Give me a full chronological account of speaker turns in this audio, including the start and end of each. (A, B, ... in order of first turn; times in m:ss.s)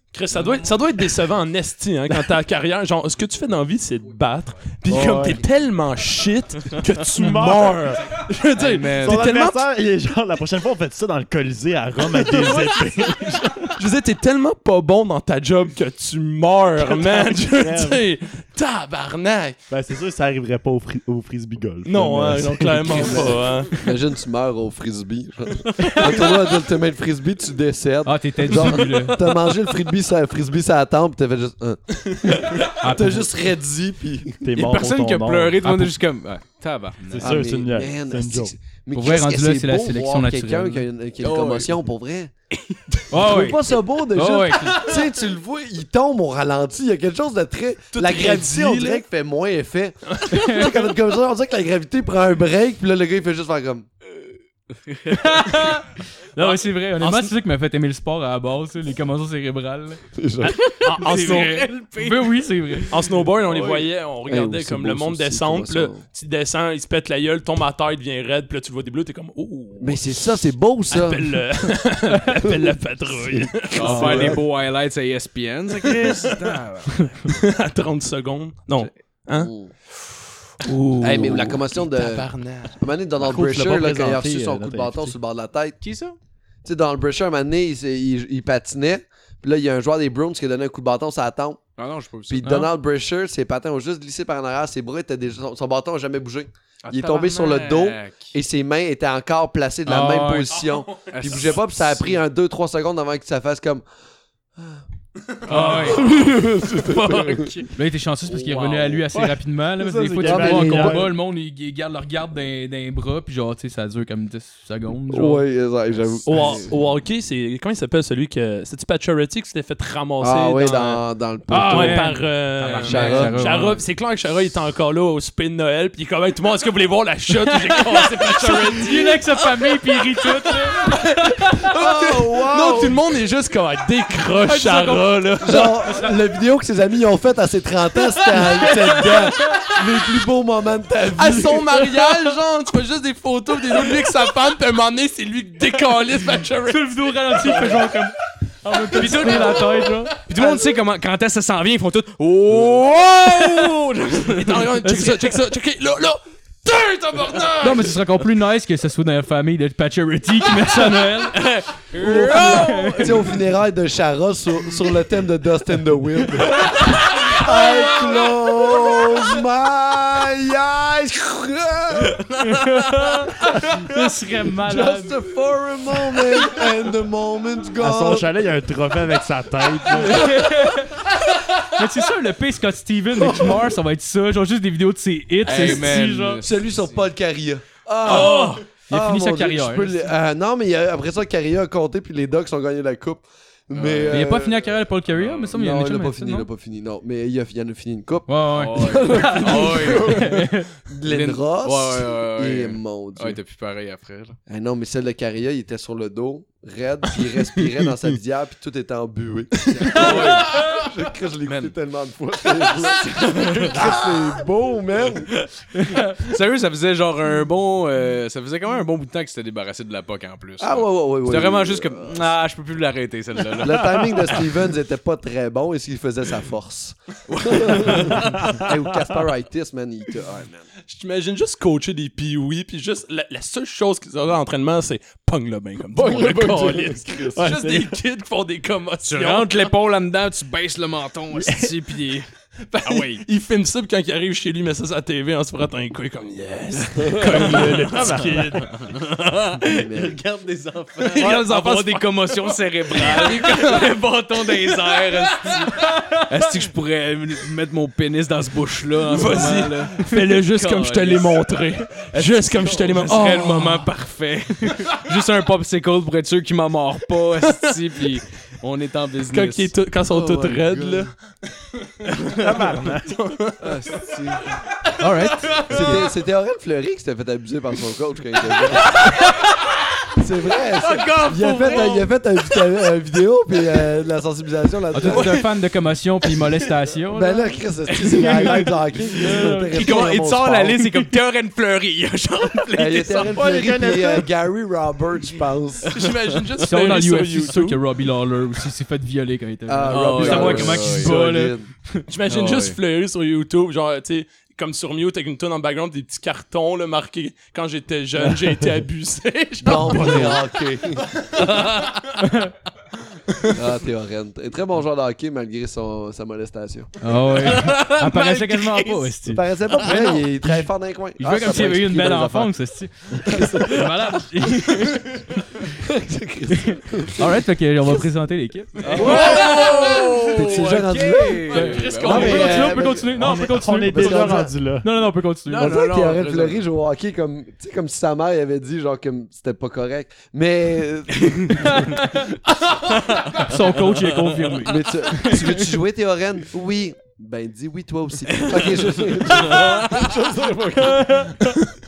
0:00.1-0:09.6 A
0:04.8-0:05.4 B
0:07.1-0:08.0 B
0:08.6-0:09.2 C
0:09.0-0:13.6 B
0:12.4-0:12.6 A
0:13.7-0:19.6 A
0:16.8-0:18.0 B
0:19.7-0:23.6 B
0:21.8-0:23.7 A
0:23.0-0:34.4 D
0:25.8-0:26.2 E
0:28.0-0:29.2 E
0:32.7-0:33.3 E
0:34.4-0:36.0 B
0:34.5-0:37.2 C
0:35.6-0:35.9 E
0:37.0-0:38.5 B
0:37.2-0:42.3 D
0:38.9-0:40.8 E
0:41.2-0:41.7 C
0:42.5-0:42.8 C
0:43.1-0:44.9 E
0:43.1-0:53.9 D
0:47.9-0:49.0 A
0:50.1-0:50.4 A
0:50.3-0:50.7 E
0:54.9-0:55.4 C
0:55.1-1:00.0 E
0:56.4-0:57.3 A
1:00.1-1:00.7 D
1:00.7-1:02.9 C
1:00.7-1:01.6 A
1:01.0-1:02.9 E
1:02.9-1:10.2 A
1:03.5-1:06.0 D
1:09.8-1:11.7 D
1:10.9-1:14.4 A
1:12.5-1:12.7 D
1:13.2-1:14.4 D
1:13.7-1:17.1 C
1:14.0-1:14.3 B
1:15.8-1:20.0 A
1:19.4-1:19.7 D
1:20.6-1:22.8 A
1:21.0-1:25.8 D
1:23.2-1:25.1 B
1:25.8-1:26.2 C
1:26.6-1:31.6 D
1:31.8-1:32.6 C
1:32.3-1:43.8 D
1:32.4-1:32.7 E
1:36.8-1:38.3 C
1:39.8-1:40.6 E
1:40.7-1:41.4 A
1:41.1-1:42.2 C
1:45.5-1:46.0 E
1:45.5-1:47.7 C
1:45.5-1:47.6 D
1:47.7-1:55.4 E
1:48.3-1:49.0 C
1:49.1-1:51.1 B
1:50.2-1:51.1 D
1:55.1-1:56.7 D
1:56.2-2:01.0 A
2:00.2-2:02.2 D
2:01.5-2:03.8 E
2:01.6-2:09.2 A
2:02.6-2:03.4 C
2:02.8-2:03.4 D
2:07.4-2:11.7 E
2:10.7-2:15.8 A
2:11.7-2:13.0 D
2:14.4-2:16.1 E
2:15.4-2:21.8 D
2:18.3-2:18.7 E
2:21.2-2:28.0 A
2:26.7-2:28.1 E
2:28.6-2:30.1 E
2:28.9-2:34.6 C
2:29.0-2:29.8 A
2:30.4-2:30.7 D
2:34.2-2:38.0 A
2:34.8-2:35.4 E
2:37.6-2:41.4 E
2:40.8-2:43.4 C
2:42.0-2:52.2 D
2:42.0-2:43.1 E
2:52.4-2:53.3 E
2:53.3-2:53.9 D
2:53.8-2:55.1 E
2:54.6-2:58.3 D
2:57.8-3:00.2 B
3:00.0-3:01.0 E
3:01.7-3:06.4 E
3:03.1-3:03.7 D
3:05.4-3:07.0 C
3:05.5-3:05.9 D
3:06.4-3:14.6 D
3:08.0-3:10.1 E
3:08.2-3:08.5 C
3:13.7-3:14.3 C
3:14.1-3:16.5 E
3:15.2-3:15.5 C
3:15.5-3:23.4 D
3:18.3-3:20.7 E
3:18.5-3:20.3 C
3:21.0-3:24.4 C
3:24.5-3:35.3 D
3:29.9-3:30.6 C
3:31.4-3:31.7 C
3:33.0-3:34.3 C
3:35.7-3:36.2 E
3:36.1-3:44.5 C
3:40.6-3:42.2 D
3:43.6-3:50.7 D
3:47.3-3:48.5 C
3:50.9-3:59.7 A
3:56.0-3:57.0 C
3:56.0-3:56.9 D
3:57.3-3:58.0 B
3:59.0-4:02.3 C
4:01.3-4:01.7 B
4:02.7-4:08.8 A
4:02.8-4:03.2 C
4:07.2-4:08.7 B
4:08.8-4:29.7 C
4:09.6-4:10.2 D
4:11.0-4:14.0 A
4:15.8-4:16.2 E
4:19.0-4:23.9 A
4:27.4-4:28.0 A
4:29.3-4:31.1 A
4:30.1-4:31.1 D
4:32.4-4:33.2 B
4:32.8-4:33.9 A
4:33.6-4:34.6 D
4:35.0-4:36.0 E
4:35.7-4:39.3 D
4:38.8-4:39.6 C
4:40.2-4:45.4 D
4:40.8-4:42.6 C
4:44.9-4:47.5 E
4:45.1-4:45.4 C
4:47.1-4:50.8 D
4:47.9-4:48.7 C
4:48.1-4:50.0 E
4:49.7-4:53.7 C
4:52.7-4:55.9 D
4:53.3-4:54.2 B
4:55.8-4:56.4 C
4:55.9-4:57.8 A
4:56.6-5:02.0 E
4:59.7-5:01.7 D
4:59.9-5:01.2 C
5:02.1-5:10.4 A
5:02.3-5:02.8 C
5:09.6-5:11.4 D
5:09.7-5:10.3 E
5:11.4-5:12.0 C
5:12.2-5:12.5 E
5:13.5-5:16.9 D
5:17.0-5:25.4 E
5:17.3-5:19.1 C
5:19.3-5:22.5 D
5:19.8-5:20.2 C
5:21.4-5:21.7 C
5:23.1-5:23.9 D
5:25.7-5:28.0 D
5:26.6-5:29.6 E
5:28.8-5:32.8 C
5:28.8-5:34.5 D
5:29.0-5:29.7 A
5:30.7-5:35.7 E
5:31.7-5:32.6 A
5:33.1-5:34.9 B
5:35.5-5:36.6 C
5:35.6-5:42.1 D
5:41.6-5:42.2 E
5:43.4-5:45.7 E
5:44.6-5:51.0 D
5:48.3-5:50.1 C
5:50.8-5:51.6 E